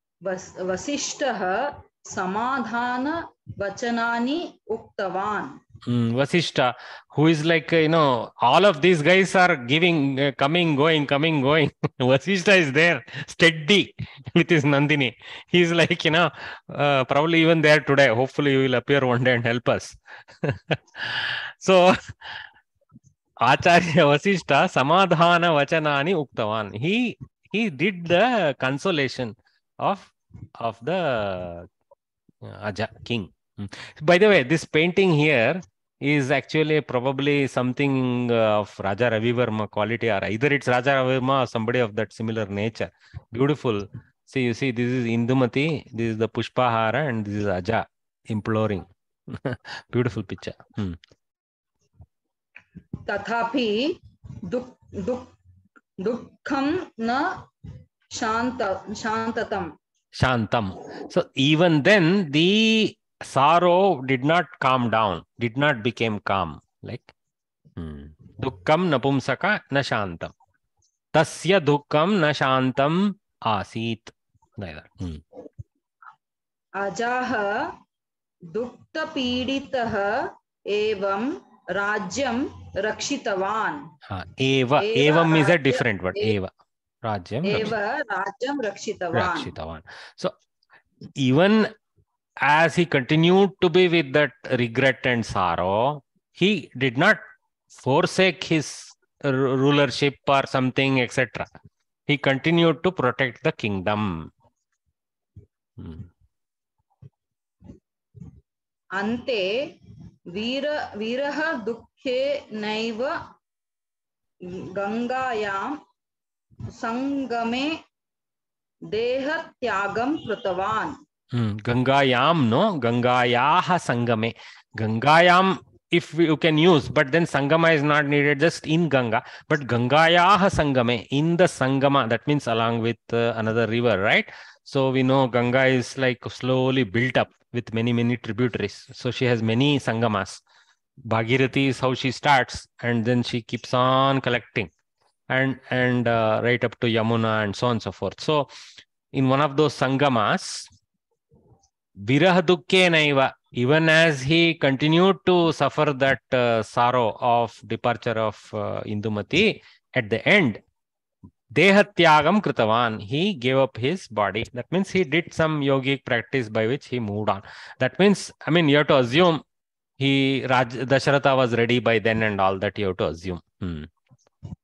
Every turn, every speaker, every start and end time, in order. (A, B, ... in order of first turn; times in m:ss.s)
0:00.3-0:05.6 A
0:05.8-0:22.4 B
0:23.4-0:31.7 B
0:32.4-0:51.0 B
0:53.1-0:53.9 A
0:54.5-0:55.3 A
0:56.0-0:57.3 A
0:58.1-0:59.7 A
1:00.2-1:07.1 B
1:07.8-1:10.3 B
1:11.1-1:15.2 B
1:16.8-1:17.7 A
1:18.5-1:20.2 A
1:20.7-1:23.8 A
1:24.1-1:26.5 B
1:24.8-1:26.4 A
1:27.0-1:27.7 B
1:27.4-1:29.5 A
1:29.1-1:30.3 B
1:31.2-1:31.7 B
1:32.4-1:37.2 B
1:37.8-1:41.5 B
1:42.1-1:44.3 B
1:45.8-1:46.1 B
1:49.0-1:49.4 A
1:50.3-1:53.1 A
1:54.5-1:55.8 A
1:56.8-1:57.7 A
1:58.9-2:00.9 A
2:01.3-2:20.4 B
2:21.1-2:24.7 B
2:25.3-2:28.4 B
2:29.1-2:30.7 B
2:32.0-2:40.6 B
2:41.6-2:49.4 B
2:50.0-2:53.9 B